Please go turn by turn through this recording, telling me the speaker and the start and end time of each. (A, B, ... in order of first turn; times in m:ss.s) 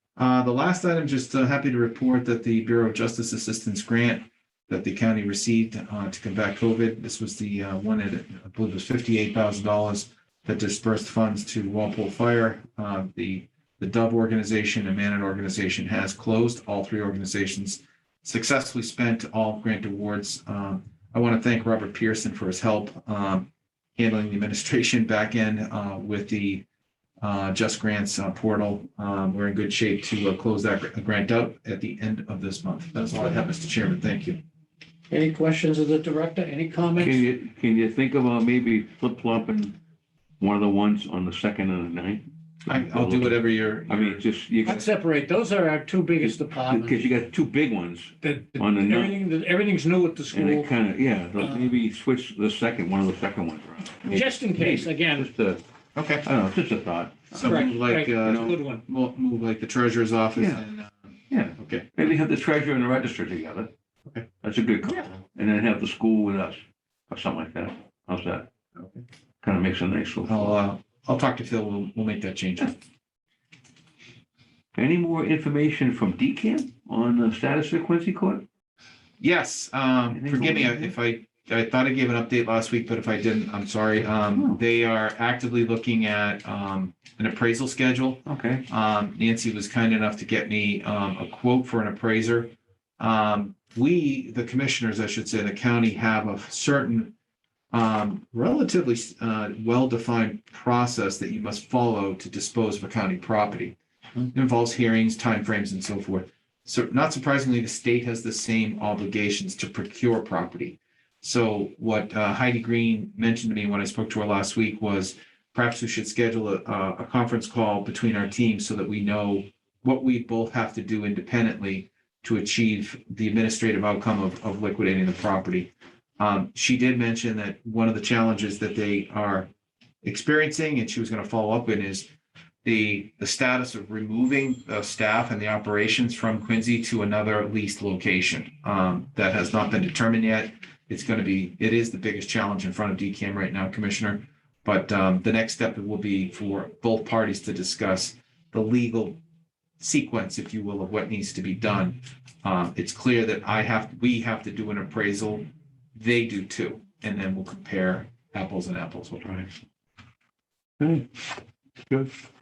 0:00.2-0:26.6 A
0:27.2-0:34.4 A
0:35.1-0:37.3 B
0:37.0-0:39.8 C
0:40.4-0:44.9 C
0:42.6-0:44.3 A
0:44.7-0:47.0 B
0:46.2-0:49.2 C
0:48.2-0:50.7 B
0:50.3-0:55.6 C
0:51.4-0:51.7 B
0:54.1-0:55.3 B
0:56.0-0:56.3 A
0:56.2-0:57.7 C
0:57.3-1:00.9 A
0:57.4-0:58.8 B
0:58.2-0:58.6 C
1:00.4-1:00.6 C
1:01.3-1:03.7 C
1:01.6-1:01.9 A
1:04.4-1:08.5 C
1:08.8-1:09.0 A
1:09.4-1:10.6 C
1:10.2-1:12.8 A
1:14.8-1:18.4 C
1:19.2-1:37.1 A
1:20.1-1:20.9 C
1:28.2-1:28.6 C
1:37.7-1:43.8 A
1:44.3-2:09.5 A
2:10.0-2:12.1 A
2:12.6-2:29.2 A
2:29.8-2:39.3 A
2:39.2-2:39.5 C
2:40.8-2:41.1 C